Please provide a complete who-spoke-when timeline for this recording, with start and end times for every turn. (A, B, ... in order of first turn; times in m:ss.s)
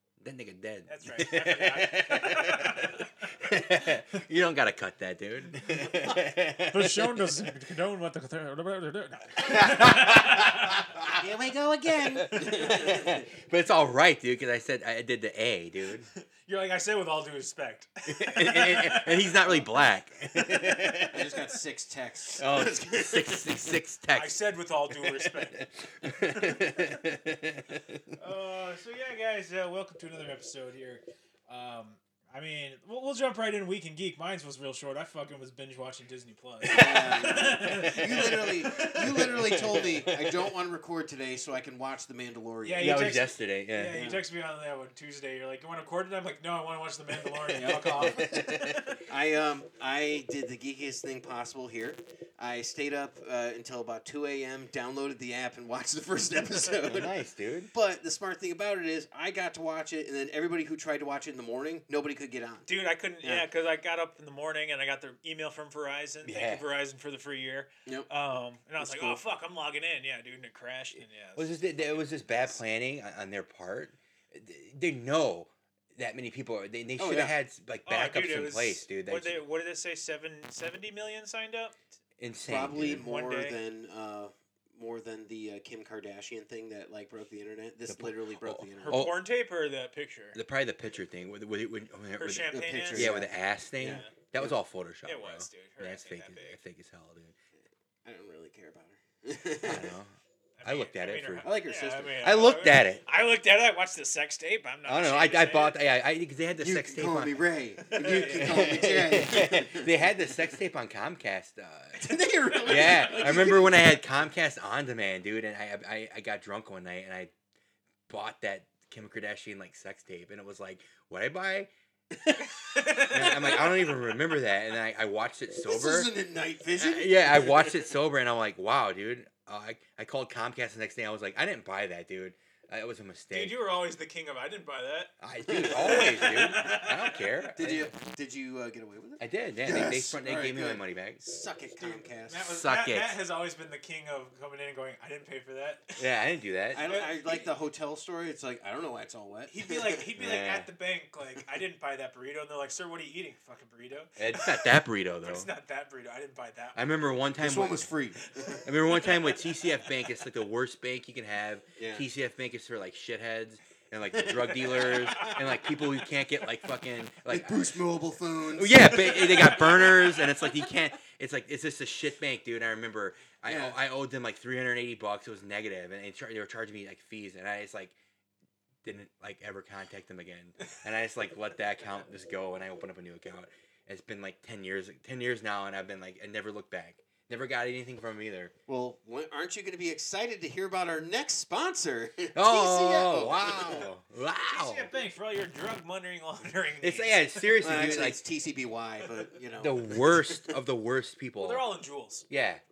0:00.2-0:07.1 A
0:00.9-0:03.1 B
0:06.7-0:10.9 B
0:09.4-0:11.2 A
0:11.1-0:13.3 C
0:11.9-0:16.1 A
0:12.1-0:12.7 B
0:16.2-0:19.5 B
0:18.1-0:21.3 A
0:21.0-0:23.5 C
0:22.4-0:24.4 A
0:24.1-0:25.6 B
0:25.0-0:28.0 A
0:28.2-0:39.0 B
0:36.6-0:43.1 C
0:37.0-0:37.6 A
0:38.7-0:40.5 A
0:42.6-0:49.0 B
0:42.8-0:44.1 A
0:43.9-0:44.2 C
0:47.6-0:48.8 A
0:47.6-0:57.1 C
0:56.9-0:57.7 A
0:57.7-1:02.7 C
1:02.7-1:11.5 B
1:06.2-1:06.6 A
1:08.8-1:09.2 C
1:11.4-1:19.4 A
1:17.0-1:17.3 C
1:17.8-1:21.8 B
1:22.2-1:23.0 A
1:22.4-1:29.0 C
1:22.9-1:23.6 B
1:27.9-1:29.2 A
1:28.8-1:30.4 B
1:30.3-1:37.3 A
1:32.2-1:33.1 B
1:32.5-1:34.6 C
1:33.8-1:34.1 B
1:35.0-1:36.6 B
1:38.0-1:39.9 C
1:39.6-1:41.5 A
1:40.6-1:45.8 B
1:41.4-1:42.2 C
1:42.2-1:43.0 A
1:44.8-1:47.4 A
1:46.6-1:50.4 C
1:47.8-1:48.9 B
1:48.0-1:52.1 A
1:52.0-1:53.9 C
1:52.5-1:53.6 B
1:52.6-1:57.3 A
1:58.1-2:01.7 A
2:02.6-2:04.1 B
2:02.7-2:06.1 A
2:05.6-2:07.9 C
2:06.7-2:13.6 A
2:13.3-2:15.1 B
2:15.2-2:17.9 A
2:15.5-2:16.5 C
2:15.7-2:17.3 B
2:17.5-2:22.4 C
2:19.2-2:21.2 A
2:21.8-2:26.0 B
2:22.3-2:23.2 A
2:26.0-2:26.9 A
2:26.7-2:30.0 C
2:26.7-2:27.5 B
2:29.5-2:36.8 B
2:30.2-2:30.7 A
2:34.2-2:35.5 A
2:36.7-2:37.9 A
2:37.4-2:38.6 C
2:38.3-2:39.4 B
2:38.6-2:47.6 A
2:41.8-2:42.0 C
2:44.1-2:45.5 C
2:44.7-2:45.6 B
2:47.3-2:50.0 C
2:48.5-2:57.9 A
2:53.4-2:53.8 C
2:58.8-3:08.5 A
3:08.7-3:13.9 C
3:12.3-3:14.9 A
3:14.5-3:17.2 B
3:16.8-3:18.2 A
3:17.6-3:20.6 C
3:19.6-3:21.7 A
3:21.4-3:22.2 B
3:22.3-3:22.6 A